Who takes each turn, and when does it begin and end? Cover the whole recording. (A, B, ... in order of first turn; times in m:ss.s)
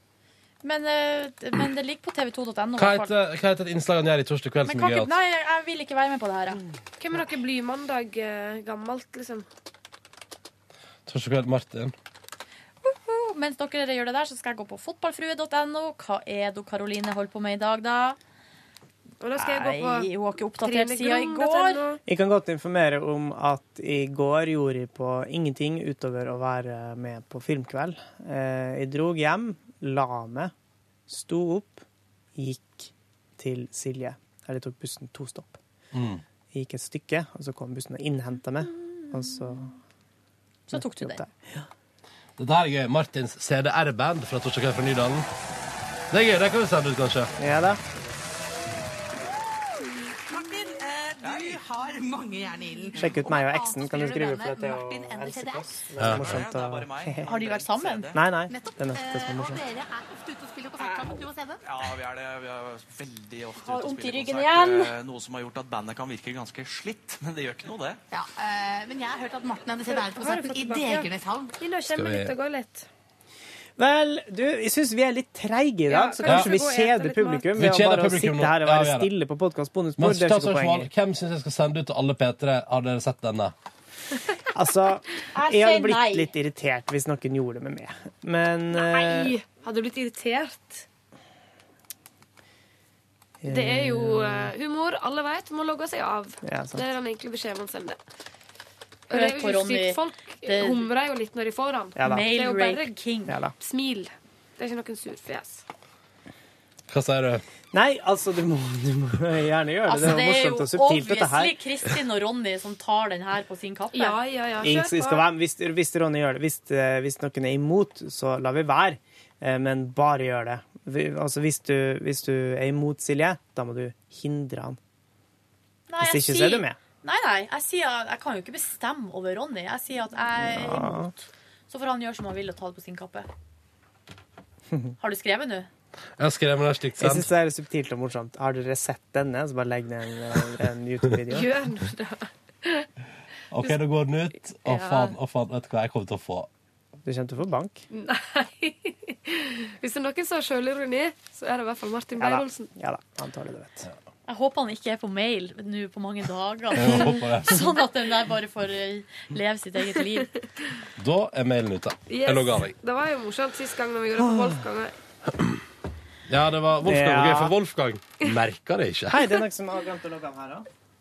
0:00.6-0:03.1 A
0:02.8-0:05.1 B
0:04.6-0:06.6 A
0:07.0-0:09.5 C
0:11.1-0:11.9 B
0:12.8-0:18.2 A
0:19.2-0:22.0 C
0:19.4-0:21.8 A
0:22.0-0:30.5 D
0:31.1-0:31.8 D
0:32.4-0:35.6 D
0:35.9-0:36.2 B
0:36.5-0:39.8 D
0:40.7-0:41.2 A
0:40.7-0:41.6 D
0:42.4-0:45.3 B
0:46.1-0:47.3 B
0:47.4-0:47.8 D
0:50.3-0:55.8 E
0:51.2-0:51.6 F
0:53.0-0:57.3 D
0:56.0-0:56.4 B
0:56.1-0:58.2 F
0:57.2-0:58.2 A
0:58.1-0:59.6 D
0:58.5-1:01.6 E
1:01.6-1:08.0 F
1:03.6-1:04.9 A
1:08.1-1:11.5 E
1:09.9-1:11.1 C
1:11.6-1:12.9 C
1:11.9-1:12.3 B
1:13.8-1:20.9 D
1:15.9-1:17.6 C
1:16.2-1:16.5 B
1:17.5-1:19.1 B
1:20.0-1:23.5 B
1:24.5-1:29.3 D
1:25.3-1:26.3 A
1:28.7-1:30.8 C
1:33.4-1:34.5 D
1:33.5-1:38.0 C
1:36.4-1:36.9 D
1:39.1-1:42.9 C
1:39.1-1:40.9 A
1:42.0-1:42.3 D
1:42.0-1:43.4 A
1:43.6-1:45.6 C
1:46.9-1:47.4 B
1:47.7-1:51.6 D
1:49.9-1:54.2 A
1:53.9-1:55.3 C
1:54.6-2:04.8 D
2:05.9-2:13.3 A
2:06.0-2:06.8 D
2:10.4-2:11.1 D
2:15.0-2:15.7 A
2:16.2-2:17.3 B
2:17.0-2:21.6 D
2:21.3-2:22.9 C
2:23.5-2:26.5 B
2:24.6-2:25.1 C
2:27.0-2:27.8 D
2:27.9-2:32.7 C
2:32.2-2:33.9 D
2:34.3-2:40.3 A
2:36.7-2:37.6 B
2:41.0-2:42.7 B
2:42.1-2:44.9 C
2:46.3-2:49.3 B
2:46.8-2:47.5 D
2:49.1-2:50.7 D